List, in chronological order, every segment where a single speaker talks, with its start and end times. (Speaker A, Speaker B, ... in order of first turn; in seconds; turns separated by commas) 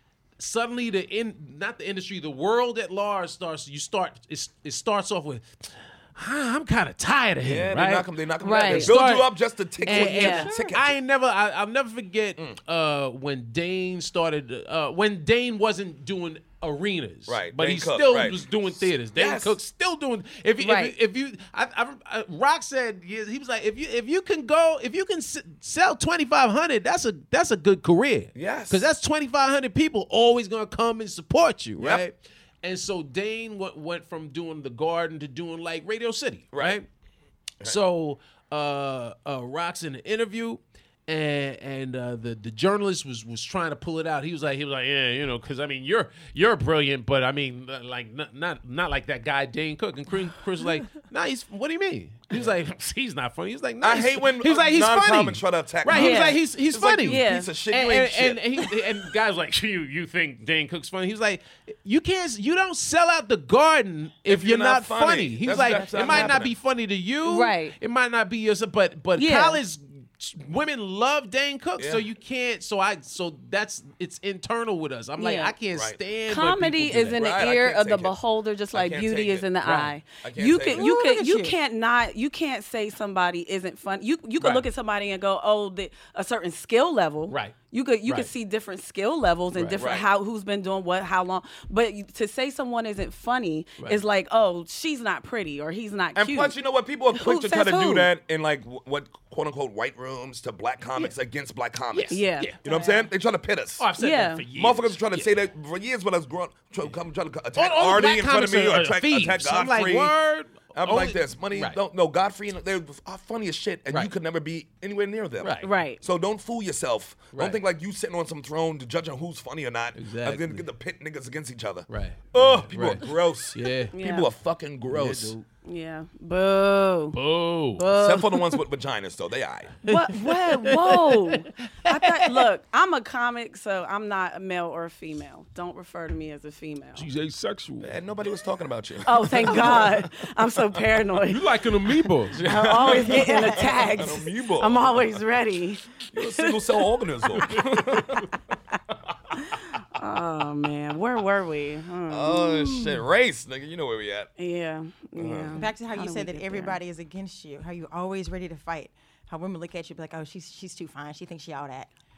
Speaker A: 0.4-8.1, Speaker B: 7.4-10.9, Speaker C: 8.4-8.9, Speaker A: 8.7-36.9, Speaker C: 9.9-10.5, Speaker B: 17.3-18.4, Speaker B: 19.1-19.5, Speaker C: 20.6-20.9, Speaker B: 28.4-28.8, Speaker B: 31.8-32.0, Speaker B: 36.5-36.8, Speaker A: 37.6-77.2, Speaker B: 53.8-58.6, Speaker C: 55.9-56.4, Speaker C: 57.0-57.5, Speaker B: 64.3-66.5, Speaker C: 65.7-66.3, Speaker C: 67.2-67.7, Speaker C: 69.2-69.6, Speaker C: 75.2-75.5, Speaker B: 75.7-76.0, Speaker C: 76.3-96.6, Speaker B: 77.0-78.2, Speaker B: 78.7-79.5, Speaker A: 79.6-79.9, Speaker B: 80.2-80.9, Speaker D: 80.7-81.5, Speaker A: 87.3-88.3, Speaker A: 89.5-89.8, Speaker B: 89.7-90.1, Speaker B: 96.2-103.8, Speaker C: 97.1-98.1, Speaker A: 101.9-102.6, Speaker C: 102.1-102.9, Speaker A: 103.8-105.4, Speaker C: 104.0-104.4, Speaker B: 104.5-110.1, Speaker A: 107.5-111.8, Speaker B: 110.7-125.3, Speaker A: 115.4-115.7, Speaker C: 115.6-116.0, Speaker A: 117.3-117.6, Speaker A: 119.9-120.7, Speaker A: 121.9-123.9, Speaker C: 123.9-124.3, Speaker A: 124.9-125.5, Speaker C: 125.6-127.2, Speaker A: 127.1-127.9, Speaker C: 127.8-128.4, Speaker B: 127.9-129.7, Speaker C: 129.8-137.1, Speaker A: 129.9-132.5, Speaker A: 136.9-138.0, Speaker B: 137.8-139.9, Speaker C: 139.0-141.4, Speaker A: 139.5-140.1, Speaker A: 141.3-142.4, Speaker B: 142.3-145.0, Speaker C: 142.4-146.8, Speaker D: 143.2-143.6, Speaker B: 146.1-148.3, Speaker A: 147.4-148.2, Speaker C: 149.4-152.8, Speaker B: 152.1-154.3, Speaker C: 154.4-156.8, Speaker B: 155.2-155.7, Speaker D: 155.6-161.9